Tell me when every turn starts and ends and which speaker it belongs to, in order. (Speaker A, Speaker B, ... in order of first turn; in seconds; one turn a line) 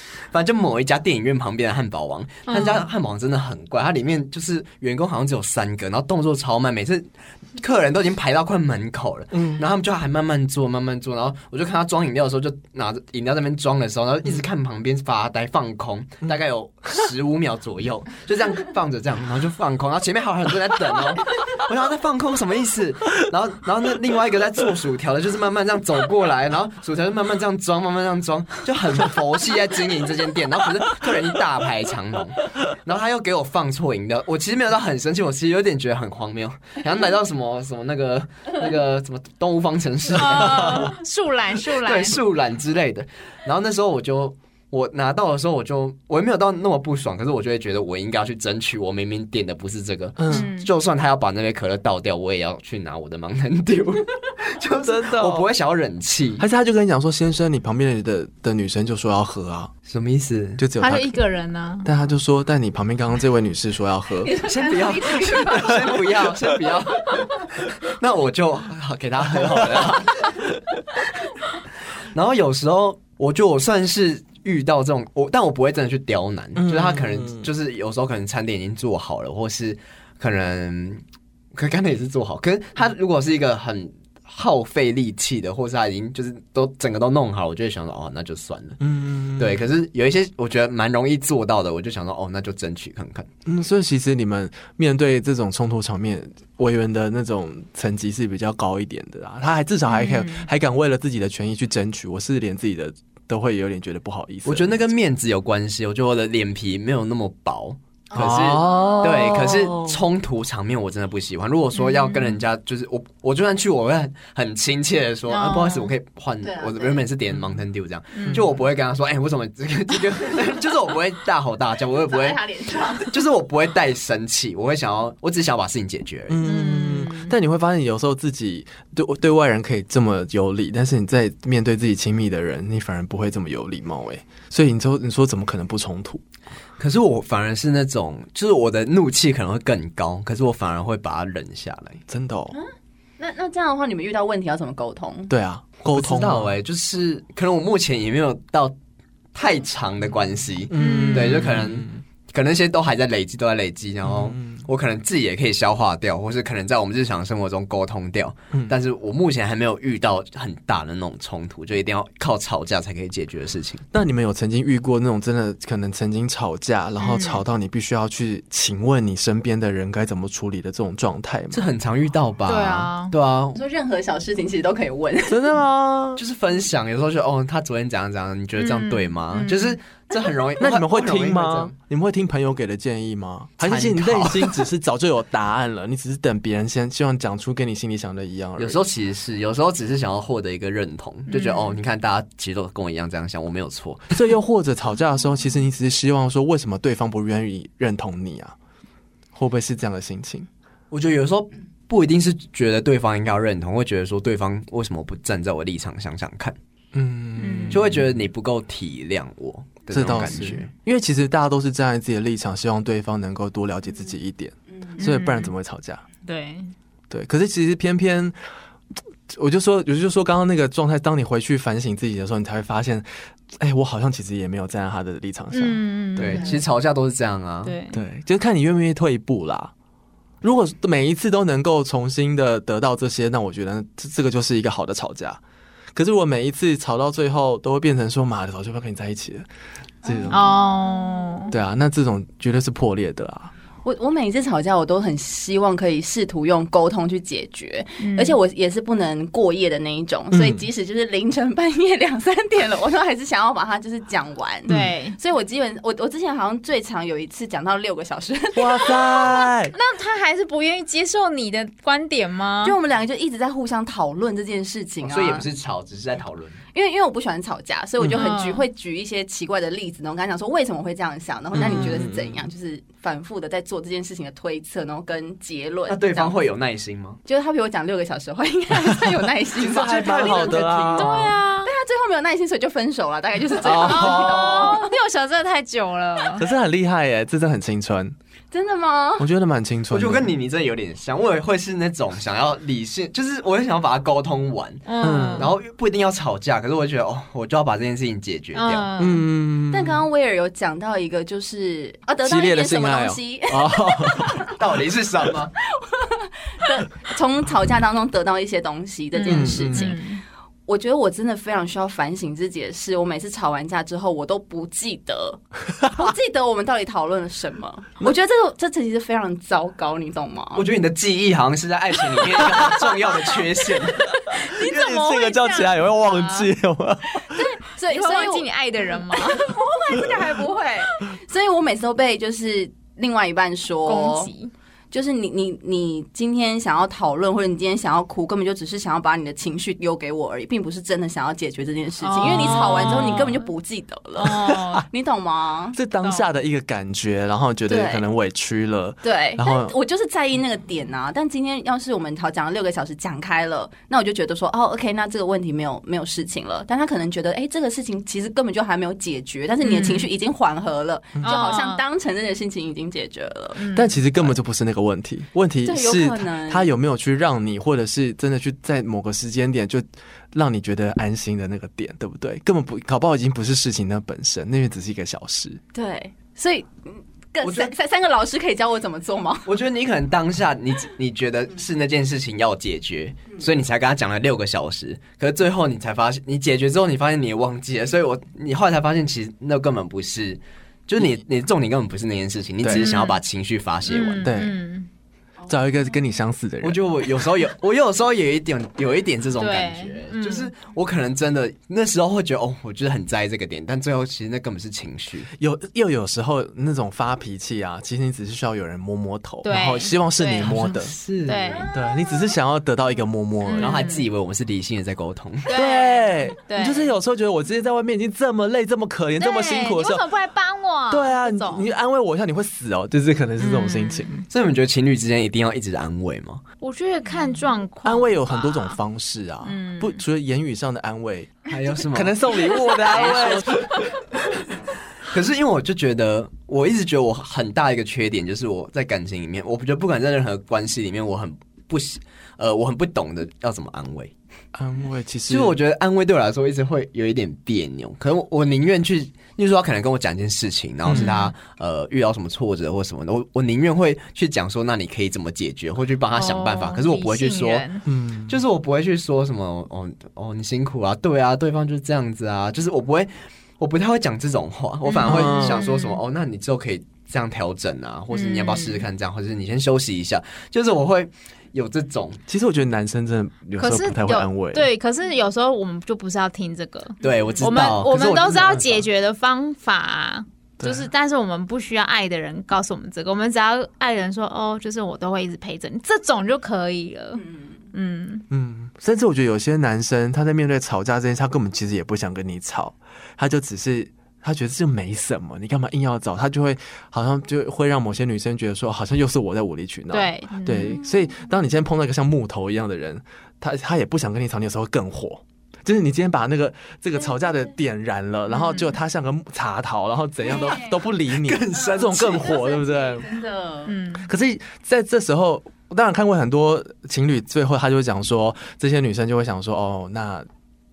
Speaker A: 0.3-41.0
Speaker B: 2.5-2.9
Speaker C: 9.3-9.7
Speaker B: 40.1-42.2
Speaker A: 41.7-56.4
Speaker C: 50.2-50.5
Speaker B: 50.3-50.7
Speaker C: 54.8-55.5
Speaker C: 56.4-59.7
Speaker A: 59.9-60.6
Speaker C: 60.6-61.1
Speaker B: 60.8-61.9
Speaker C: 61.8-64.3
Speaker D: 64.2-66.1
Speaker A: 64.4-70.4
Speaker C: 69.3-70.0
Speaker A: 72.1-81.0
Speaker C: 76.5-77.4
Speaker A: 81.5-88.8
Speaker C: 88.8-89.6
Speaker A: 89.4-93.3
Speaker C: 93.5-104.8
Speaker B: 99.9-100.5
Speaker A: 104.4-122.4
Speaker C: 108.1-110.0
Speaker D: 108.2-109.4
Speaker B: 111.8-112.4
Speaker B: 115.3-115.9
Speaker D: 116.4-117.0
Speaker B: 118.1-118.5
Speaker C: 118.2-118.5
Speaker D: 121.9-123.1
Speaker A: 123.0-126.4
Speaker C: 126.3-136.2
Speaker B: 126.4-127.3
Speaker A: 136.8-142.0
Speaker C: 142.1-142.6
Speaker D: 142.5-145.3
Speaker C: 145.3-146.5
Speaker A: 145.9-148.7
Speaker A: 149.3-163.8
Speaker C: 150.7-152.0
Speaker B: 150.8-151.5
Speaker C: 154.0-154.6
Speaker C: 163.9-171.7
Speaker B: 167.0-167.4
Speaker A: 171.5-173.6
Speaker B: 172.5-173.1
Speaker D: 173.5-175.5
Speaker C: 175.3-176.2
Speaker A: 176.2-181.7
Speaker B: 178.6-179.8
Speaker C: 180.6-188.8
Speaker A: 183.6-184.6
Speaker A: 188.6-194.1
Speaker B: 191.3-191.8
Speaker C: 194.1-198.5
Speaker C: 199.3-200.5
Speaker A: 200.9-206.6
Speaker C: 206.9-208.0
Speaker B: 207.4-207.9
Speaker A: 207.7-210.7
Speaker C: 209.9-216.0
Speaker B: 214.9-215.5
Speaker B: 216.2-216.7
Speaker C: 217.1-218.3
Speaker C: 219.3-226.4
Speaker B: 225.5-226.6
Speaker A: 226.2-227.8
Speaker B: 227.6-228.0
Speaker C: 227.9-229.7
Speaker C: 230.4-235.4
Speaker C: 235.9-239.4
Speaker C: 240.0-240.5
Speaker D: 240.0-241.5
Speaker B: 240.3-241.5
Speaker C: 241.5-243.5
Speaker D: 243.8-259.4
Speaker B: 248.0-248.3
Speaker C: 250.3-250.6
Speaker B: 254.7-255.2
Speaker C: 254.7-254.9
Speaker C: 258.6-259.7
Speaker B: 259.7-262.8
Speaker D: 262.6-265.4
Speaker A: 265.0-266.6
Speaker D: 266.7-276.3
Speaker C: 268.0-268.3
Speaker B: 268.1-268.6
Speaker C: 271.5-272.4
Speaker A: 275.9-277.2
Speaker D: 277.2-280.7
Speaker C: 278.9-281.3
Speaker A: 279.6-281.2
Speaker B: 280.9-281.7
Speaker D: 281.6-284.9
Speaker C: 283.6-284.7
Speaker B: 283.6-286.4
Speaker C: 286.4-288.1
Speaker D: 288.5-289.3
Speaker C: 289.2-290.3
Speaker A: 289.9-298.9
Speaker B: 294.9-295.5
Speaker C: 295.0-295.5
Speaker B: 298.5-299.2
Speaker C: 299.0-300.1
Speaker D: 299.7-304.5
Speaker C: 302.2-304.4
Speaker A: 304.5-305.5
Speaker D: 305.7-310.0
Speaker B: 309.1-310.2
Speaker C: 309.3-309.9
Speaker D: 310.7-320.7
Speaker A: 320.5-324.1
Speaker C: 324.3-327.4
Speaker B: 324.4-326.5
Speaker D: 327.3-328.5
Speaker B: 327.9-329.6
Speaker D: 329.1-334.3
Speaker B: 333.9-334.5
Speaker D: 334.9-345.8
Speaker B: 342.0-343.5
Speaker C: 342.2-343.1
Speaker B: 344.2-344.9
Speaker C: 345.7-349.7
Speaker D: 347.7-348.0
Speaker D: 349.0-363.6
Speaker B: 359.6-360.1
Speaker B: 361.2-361.8
Speaker B: 363.6-364.0
Speaker C: 363.7-375.6
Speaker D: 365.6-366.7
Speaker D: 375.7-379.5
Speaker A: 377.4-377.7
Speaker A: 379.4-394.3
Speaker C: 392.6-392.9
Speaker B: 392.7-393.2
Speaker B: 393.9-394.9
Speaker C: 394.2-394.6
Speaker C: 395.5-397.2
Speaker A: 396.6-405.3
Speaker B: 399.4-400.5
Speaker C: 405.4-410.9
Speaker B: 409.4-410.6
Speaker A: 410.4-411.7
Speaker B: 411.2-411.7
Speaker C: 411.7-413.9
Speaker B: 413.4-414.1
Speaker A: 413.6-415.5
Speaker B: 415.5-416.9
Speaker C: 415.5-420.0
Speaker B: 419.2-421.7
Speaker C: 420.9-424.2
Speaker B: 423.4-424.2
Speaker A: 424.3-426.4
Speaker B: 426.6-428.8
Speaker C: 427.8-433.7
Speaker B: 429.4-430.0
Speaker A: 431.5-434.4
Speaker A: 435.0-444.1
Speaker C: 444.5-445.6
Speaker A: 445.3-457.6
Speaker C: 450.8-451.2
Speaker B: 450.9-451.3
Speaker B: 456.1-457.8
Speaker C: 457.9-458.4
Speaker A: 458.3-472.2
Speaker B: 464.9-466.0
Speaker C: 465.0-465.7
Speaker B: 468.1-468.8
Speaker C: 472.3-474.7
Speaker B: 473.6-488.2
Speaker A: 477.0-478.8
Speaker C: 480.6-480.9
Speaker C: 488.3-513.1
Speaker B: 499.9-500.8
Speaker B: 508.3-508.8
Speaker A: 511.1-512.3
Speaker D: 512.2-513.7
Speaker B: 513.6-514.1
Speaker C: 514.0-520.3